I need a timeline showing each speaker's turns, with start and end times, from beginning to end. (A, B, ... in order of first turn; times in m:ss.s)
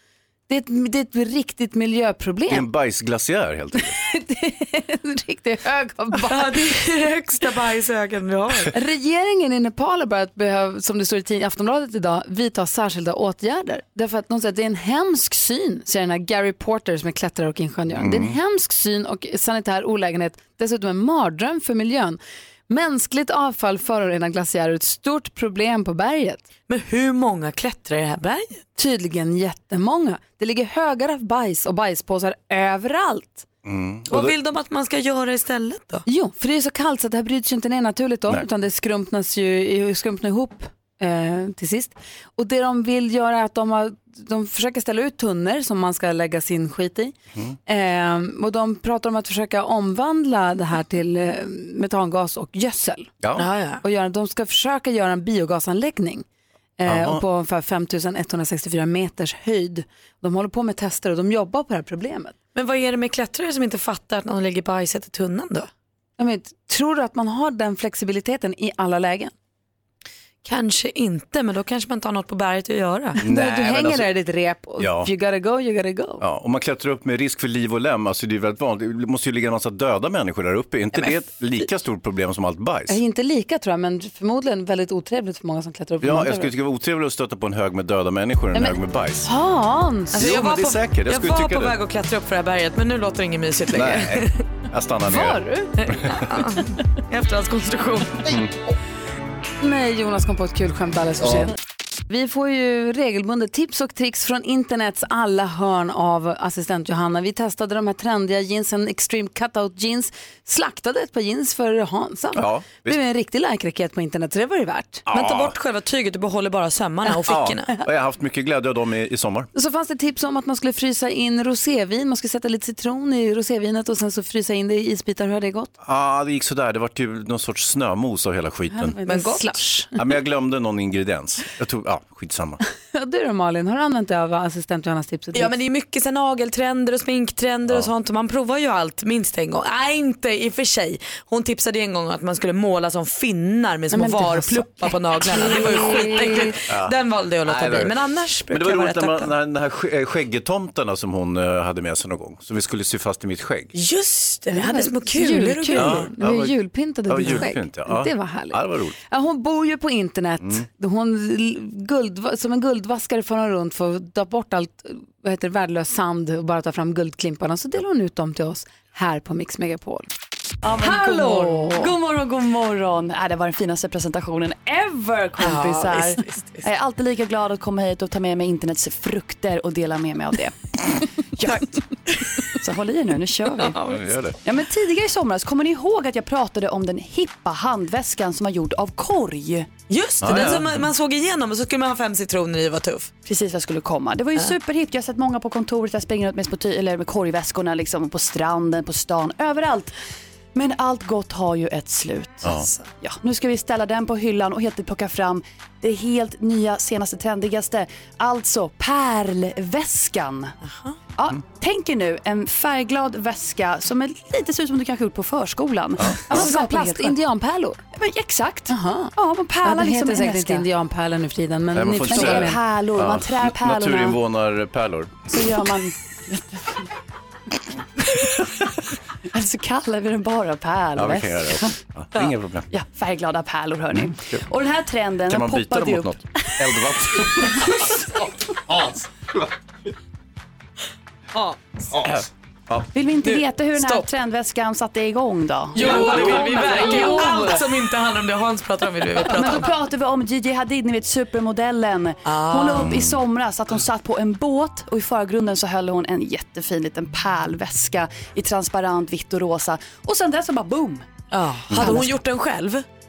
0:00.5-0:02.7 A
0:02.5-0:03.9 B
0:03.7-0:06.7 A
0:06.1-0:08.7 C
0:08.7-0:26.4 A
0:17.9-0:18.4 B
0:26.7-0:28.6 C
0:28.8-0:33.4 A
0:33.6-0:34.3 B
0:34.1-0:36.0 C
0:36.1-0:47.1 A
0:47.7-0:53.1 A
0:53.4-0:53.8 C
0:53.8-0:56.2 A
0:56.8-1:02.3 A
0:56.8-0:57.2 B
1:02.5-1:05.7 C
1:06.2-1:09.3 A
1:10.4-1:13.2 C
1:13.2-1:16.2 A
1:13.2-1:14.1 B
1:14.8-1:15.1 B
1:16.2-1:23.0 B
1:22.9-1:26.5 A
1:26.0-1:29.3 B
1:28.5-1:30.2 A
1:30.1-1:31.8 B
1:30.1-1:34.4 C
1:33.7-1:36.2 B
1:35.1-1:35.7 A
1:35.8-1:38.3 C
1:38.2-1:38.5 B
1:39.6-1:41.5 A
1:42.1-1:55.0 A
1:52.3-1:53.0 B
1:55.1-1:55.5 B
1:55.1-1:57.7 C
1:57.3-1:59.5 B
1:59.5-2:05.7 A
2:05.8-2:09.0 B
2:08.7-2:10.0 A
2:09.0-2:09.6 C
2:10.0-2:12.6 B
2:12.9-2:15.5 A
2:15.3-2:29.3 C
2:23.9-2:26.2 D
2:25.3-2:26.5 A
2:26.7-2:28.0 B
2:28.5-2:33.7 B
2:33.7-2:36.1 C
2:34.5-2:50.1 A
2:35.7-2:36.6 B
2:37.1-2:39.0 B
2:50.6-3:01.8 D
2:50.8-2:51.9 A
2:55.4-2:56.6 C
3:02.5-3:03.8 D
3:03.6-3:04.0 C
3:03.8-3:04.4 B
3:04.4-3:09.7 D
3:09.9-3:13.1 C
3:10.2-3:10.9 B
3:13.2-3:19.9 D
3:20.5-3:30.5 D
3:22.4-3:22.7 B
3:30.6-3:31.0 C
3:31.2-3:37.2 D
3:36.0-3:36.4 B
3:36.3-3:37.8 A
3:37.9-3:40.6 D
3:38.7-3:42.6 A
3:41.7-3:45.2 B
3:42.1-3:44.2 D
3:45.3-3:46.9 D
3:49.3-3:51.8 D
3:50.9-3:52.7 B
3:52.7-3:56.5 D
3:53.9-3:54.4 B
3:55.3-3:57.6 B
3:57.1-3:57.9 D
4:01.3-4:02.2 C
4:02.9-4:07.4 D
4:03.2-4:04.1 C
4:05.7-4:09.7 C
4:06.0-4:07.6 A
4:09.2-4:21.1 D
4:12.2-4:13.0 C
4:12.8-4:13.2 B
4:21.3-4:22.8 C
4:21.7-4:22.0 B
4:21.8-4:22.2 D